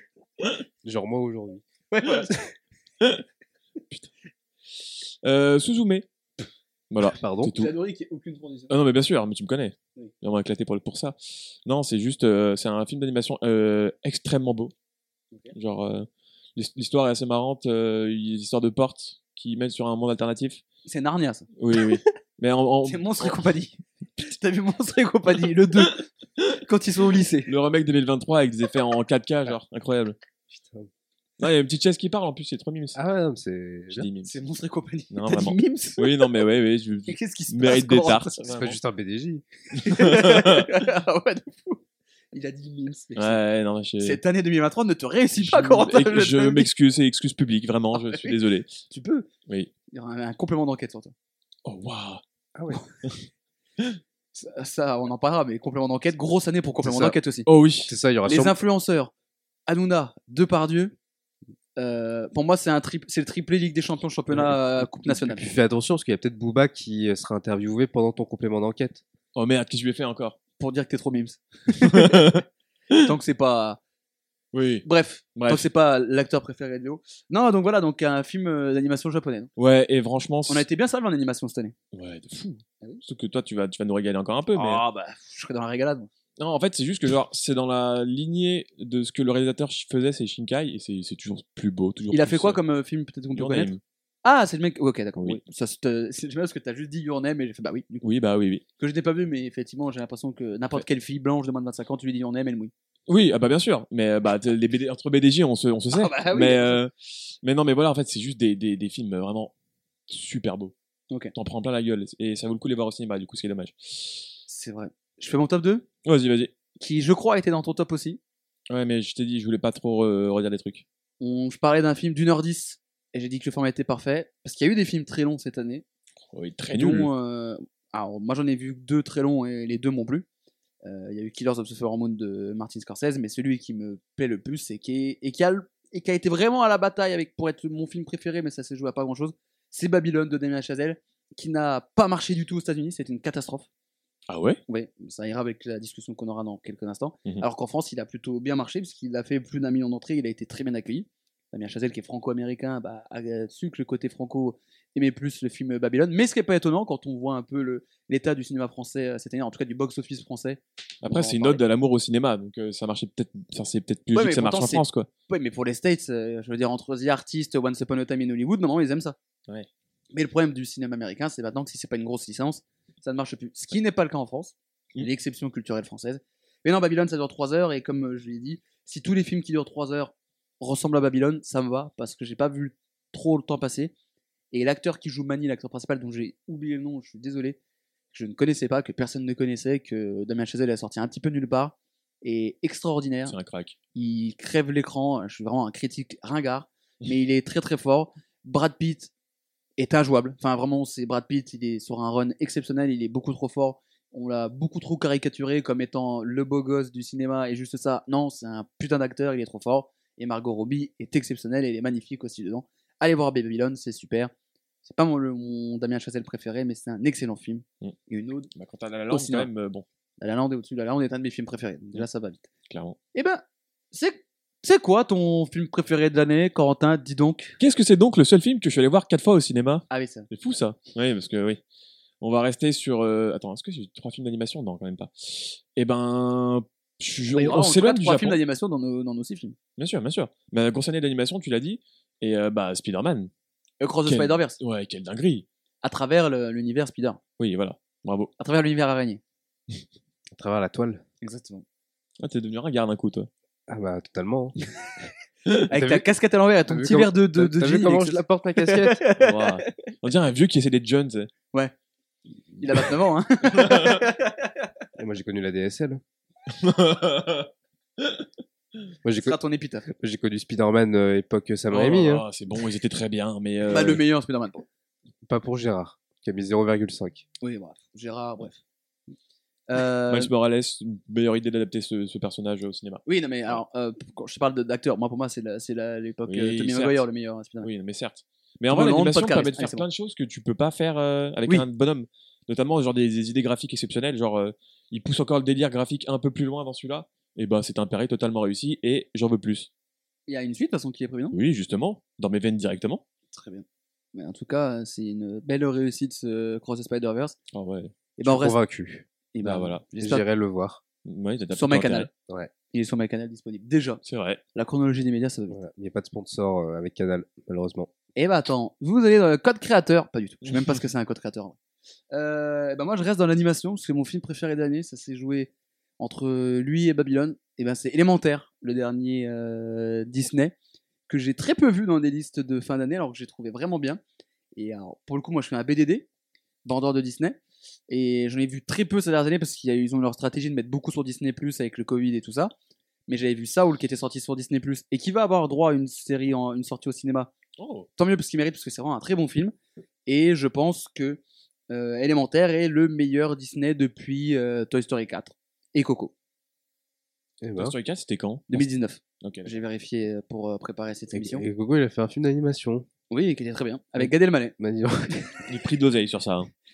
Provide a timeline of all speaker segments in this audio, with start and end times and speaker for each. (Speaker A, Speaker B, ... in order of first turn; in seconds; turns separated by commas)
Speaker A: 0.8-1.6, Speaker B: 1.9-2.5, Speaker C: 5.2-6.1, Speaker C: 6.9-7.7, Speaker A: 7.1-7.5, Speaker B: 7.5-8.7, Speaker C: 8.7-14.7, Speaker C: 15.5-20.6, Speaker B: 20.9-21.5, Speaker C: 21.6-23.4, Speaker B: 22.9-26.0, Speaker B: 26.6-27.5, Speaker C: 27.5-30.2, Speaker A: 30.5-30.9, Speaker C: 31.4-33.0, Speaker A: 33.0-34.1, Speaker C: 33.9-34.3, Speaker B: 34.2-36.3, Speaker C: 35.1-38.8, Speaker B: 37.1-38.4, Speaker A: 38.5-39.5, Speaker B: 39.8-43.4, Speaker C: 39.8-40.7, Speaker C: 43.2-44.2, Speaker B: 44.0-46.7, Speaker C: 45.4-48.8, Speaker B: 47.9-48.4, Speaker B: 48.9-49.3, Speaker B: 49.9-51.1, Speaker C: 51.6-52.2, Speaker A: 52.5-52.8, Speaker B: 54.3-57.5, Speaker A: 56.8-57.2, Speaker C: 57.5-57.9, Speaker A: 57.9-58.6, Speaker B: 58.3-59.1, Speaker B: 59.7-60.9, Speaker B: 61.8-65.5, Speaker A: 65.0-69.0, Speaker C: 69.3-70.4, Speaker B: 70.6-72.3, Speaker C: 71.8-73.1, Speaker B: 72.9-73.8, Speaker C: 74.5-75.6, Speaker B: 74.8-79.5, Speaker C: 79.6-80.7, Speaker B: 80.5-81.7, Speaker C: 81.9-84.8, Speaker B: 84.5-86.1, Speaker C: 86.4-92.6, Speaker B: 92.1-93.7, Speaker C: 93.3-93.8, Speaker B: 94.2-98.0, Speaker C: 98.0-98.6, Speaker B: 98.8-102.7, Speaker C: 103.1-109.5, Speaker B: 105.9-106.8, Speaker C: 110.1-110.7, Speaker C: 111.3-114.3, Speaker B: 114.5-115.9, Speaker C: 116.0-116.5, Speaker B: 116.8-118.2, Speaker C: 118.7-120.8, Speaker B: 121.2-125.8, Speaker C: 126.3-127.1, Speaker B: 126.7-130.3, Speaker B: 130.8-143.7, Speaker C: 144.3-144.6, Speaker B: 144.7-161.6, Speaker C: 161.0-165.1, Speaker B: 164.1-169.2, Speaker B: 170.1-183.9, Speaker B: 184.5-187.6, Speaker B: 188.1-193.3, Speaker C: 193.3-193.8, Speaker B: 193.9-199.1, Speaker B: 199.8-214.3, Speaker B: 214.8-218.5, Speaker C: 218.6-219.8, Speaker B: 219.1-219.5, Speaker B: 220.2-222.4, Speaker C: 222.7-223.0, Speaker B: 223.1-227.6, Speaker C: 227.6-231.6, Speaker B: 229.9-230.3, Speaker C: 232.2-238.4, Speaker B: 237.4-239.6, Speaker C: 239.8-243.3, Speaker B: 243.8-244.6, Speaker C: 244.1-245.4, Speaker B: 245.8-247.2, Speaker C: 247.4-248.3, Speaker B: 248.4-249.2, Speaker A: 250.3-251.0, Speaker B: 251.2-251.7, Speaker C: 252.2-253.3, Speaker A: 253.7-254.6, Speaker B: 255.7-259.7, Speaker A: 255.7-256.1, Speaker A: 256.7-259.0, Speaker C: 259.2-261.3, Speaker B: 262.6-264.7, Speaker C: 263.6-264.0, Speaker A: 265.0-266.0, Speaker C: 266.5-267.5, Speaker C: 268.0-268.2, Speaker A: 269.0-269.4, Speaker B: 269.2-269.9, Speaker A: 269.9-272.2, Speaker C: 271.7-274.0, Speaker B: 273.7-274.6, Speaker A: 275.2-277.2, Speaker B: 277.4-278.6, Speaker B: 279.7-280.3, Speaker C: 280.1-283.6, Speaker B: 283.1-287.7, Speaker C: 286.3-287.1, Speaker C: 287.6-299.7, Speaker B: 288.7-289.9, Speaker B: 300.3-301.4, Speaker C: 301.3-303.0, Speaker B: 303.3-307.4, Speaker C: 307.5-307.9, Speaker B: 308.2-308.6, Speaker A: 308.2-309.1, Speaker B: 309.3-310.2, Speaker C: 309.4-309.8, Speaker A: 310.0-310.8, Speaker C: 311.1-312.1, Speaker B: 311.5-312.1, Speaker B: 312.7-314.0, Speaker C: 314.1-314.4, Speaker B: 314.6-315.6, Speaker A: 315.5-317.9, Speaker B: 318.2-321.6, Speaker B: 322.1-330.6, Speaker B: 331.1-334.0, Speaker B: 334.6-336.1, Speaker B: 336.6-342.5, Speaker B: 343.1-347.3, Speaker C: 347.6-347.9, Speaker B: 348.0-349.5, Speaker B: 350.1-356.1, Speaker A: 357.4-357.8, Speaker C: 357.6-358.7, Speaker B: 358.5-361.4, Speaker C: 359.2-359.5, Speaker A: 361.1-362.9, Speaker B: 363.1-364.6, Speaker A: 364.6-365.3, Speaker C: 365.5-366.5